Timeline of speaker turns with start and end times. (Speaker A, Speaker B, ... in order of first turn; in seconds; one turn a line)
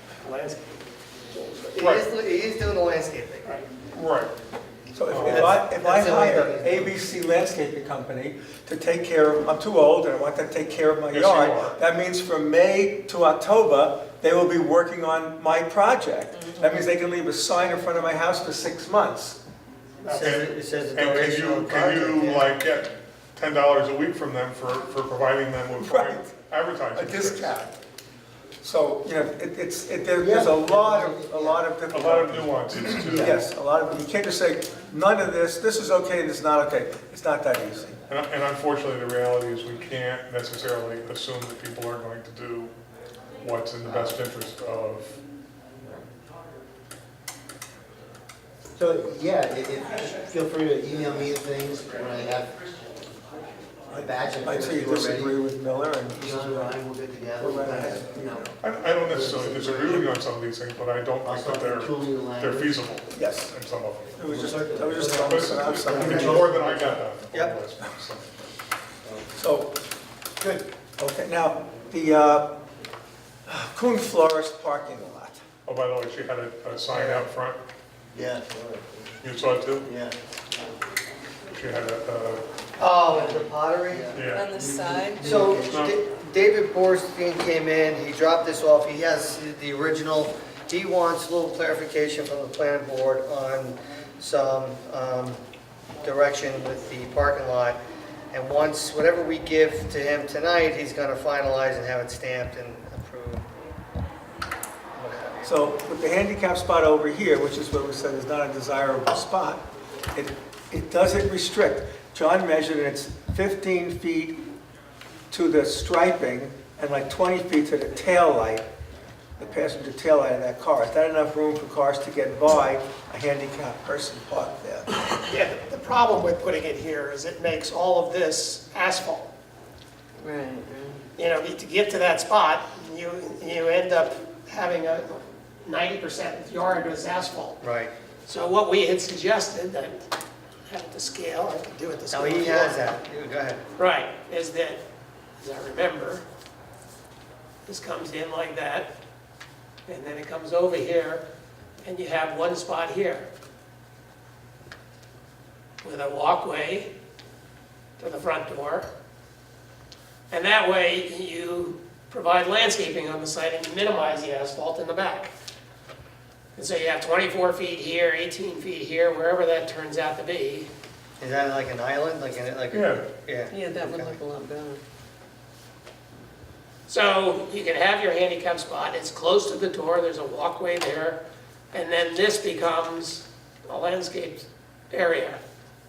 Speaker A: 0.2-0.6
Speaker B: 1.4-3.6
Speaker C: 1.8-2.1
Speaker C: 3.9-4.3
Speaker D: 4.9-19.4
Speaker C: 5.1-5.5
Speaker B: 5.2-7.0
Speaker C: 11.1-11.8
Speaker B: 20.1-22.5
Speaker C: 20.2-27.5
Speaker D: 25.8-26.3
Speaker D: 26.9-27.7
Speaker D: 28.6-38.0
Speaker E: 30.2-31.6
Speaker C: 31.9-33.4
Speaker C: 38.1-42.7
Speaker C: 43.4-45.2
Speaker E: 43.9-44.1
Speaker E: 48.8-52.7
Speaker E: 53.9-55.4
Speaker D: 54.4-56.8
Speaker E: 56.1-60.0
Speaker D: 57.4-58.5
Speaker C: 58.6-64.3
Speaker E: 61.2-62.8
Speaker D: 63.1-63.5
Speaker D: 64.2-66.5
Speaker E: 64.2-67.0
Speaker C: 65.2-68.4
Speaker B: 66.0-66.4
Speaker B: 67.3-67.6
Speaker E: 69.0-69.3
Speaker D: 69.4-69.8
Speaker D: 71.0-72.6
Speaker D: 73.5-75.4
Speaker C: 75.7-77.6
Speaker E: 78.1-79.2
Speaker C: 79.2-79.9
Speaker E: 79.8-80.2
Speaker C: 81.5-82.4
Speaker B: 82.8-84.2
Speaker E: 83.1-83.4
Speaker E: 83.9-85.7
Speaker C: 84.1-84.5
Speaker F: 84.3-85.3
Speaker B: 85.2-95.4
Speaker C: 85.5-86.0
Speaker B: 96.0-97.8
Speaker B: 98.3-103.5
Speaker B: 105.0-105.5
Speaker D: 105.4-109.6
Speaker D: 110.1-114.4
Speaker D: 115.3-118.7
Speaker D: 119.4-124.9
Speaker A: 125.3-129.3
Speaker F: 130.2-131.0
Speaker A: 131.2-137.6
Speaker B: 137.6-137.9
Speaker A: 138.3-140.1
Speaker A: 140.7-142.8
Speaker B: 142.1-143.6
Speaker A: 143.8-144.8
Speaker A: 145.4-146.2
Speaker A: 147.7-148.9
Speaker A: 149.9-151.2
Speaker A: 151.8-153.3
Speaker A: 155.8-156.9
Speaker A: 158.0-158.9
Speaker A: 160.3-165.3
Speaker A: 166.6-170.7
Speaker B: 171.2-174.2
Speaker C: 172.7-173.1
Speaker F: 173.5-174.8
Speaker A: 176.9-181.2
Speaker A: 181.7-185.4